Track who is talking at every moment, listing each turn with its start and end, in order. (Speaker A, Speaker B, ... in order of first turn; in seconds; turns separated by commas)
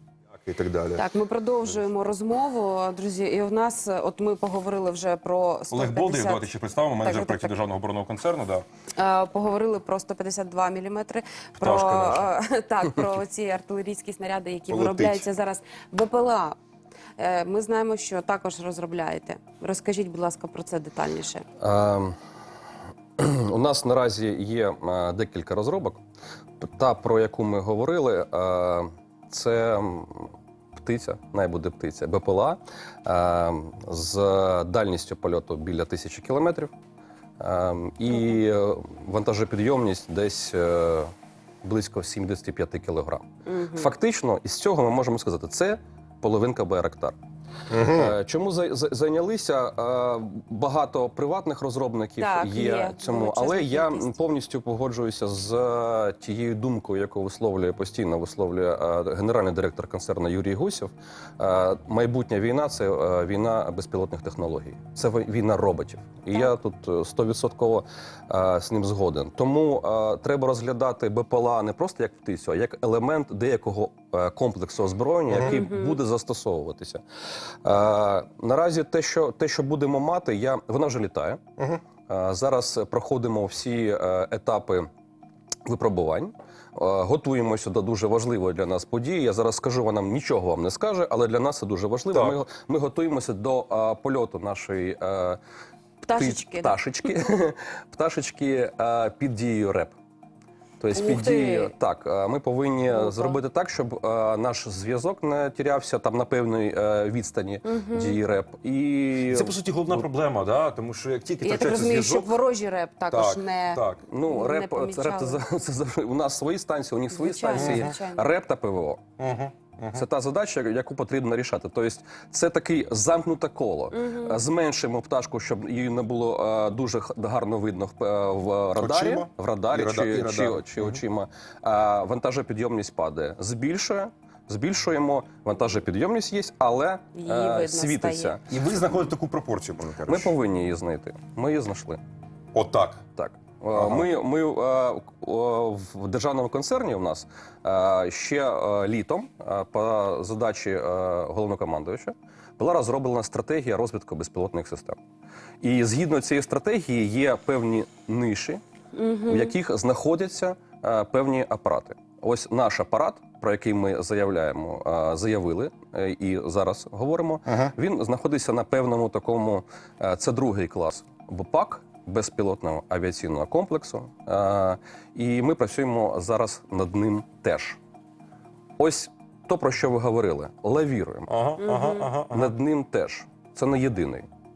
Speaker A: 0.3-1.1, Speaker B: 0.9-6.5, Speaker A: 5.7-8.6, Speaker B: 7.0-7.5, Speaker B: 9.0-16.6, Speaker A: 11.6-12.3, Speaker A: 14.7-15.3, Speaker B: 17.2-21.4, Speaker C: 21.6-22.1, Speaker C: 23.2-26.0, Speaker C: 26.6-36.7, Speaker C: 37.4-41.1, Speaker C: 41.6-47.2, Speaker B: 43.5-43.9, Speaker A: 47.7-48.1, Speaker C: 47.8-77.0, Speaker B: 52.2-54.1, Speaker A: 75.3-75.6, Speaker B: 75.4-76.0, Speaker C: 77.6-81.4, Speaker C: 82.1-84.9, Speaker C: 85.7-95.4, Speaker A: 92.1-92.4, Speaker B: 96.0-96.8, Speaker C: 96.1-100.0, Speaker C: 100.8-110.0, Speaker B: 100.9-101.7, Speaker B: 102.9-103.4, Speaker B: 107.6-108.2, Speaker A: 109.3-112.3, Speaker B: 111.4-115.4, Speaker A: 113.1-114.0, Speaker C: 114.0-119.0, Speaker B: 117.1-118.3, Speaker A: 117.5-117.9, Speaker A: 119.2-120.0, Speaker C: 119.9-138.9, Speaker B: 123.9-124.4, Speaker A: 128.8-131.0, Speaker B: 137.1-138.4, Speaker A: 138.5-140.3, Speaker C: 140.0-142.0, Speaker A: 142.5-143.0, Speaker C: 143.2-155.0, Speaker A: 143.7-144.1, Speaker C: 155.6-158.6, Speaker B: 158.9-159.5, Speaker C: 159.2-177.8, Speaker A: 167.5-167.7, Speaker C: 178.8-181.3, Speaker A: 181.3-182.6, Speaker B: 181.6-182.1, Speaker C: 182.3-184.3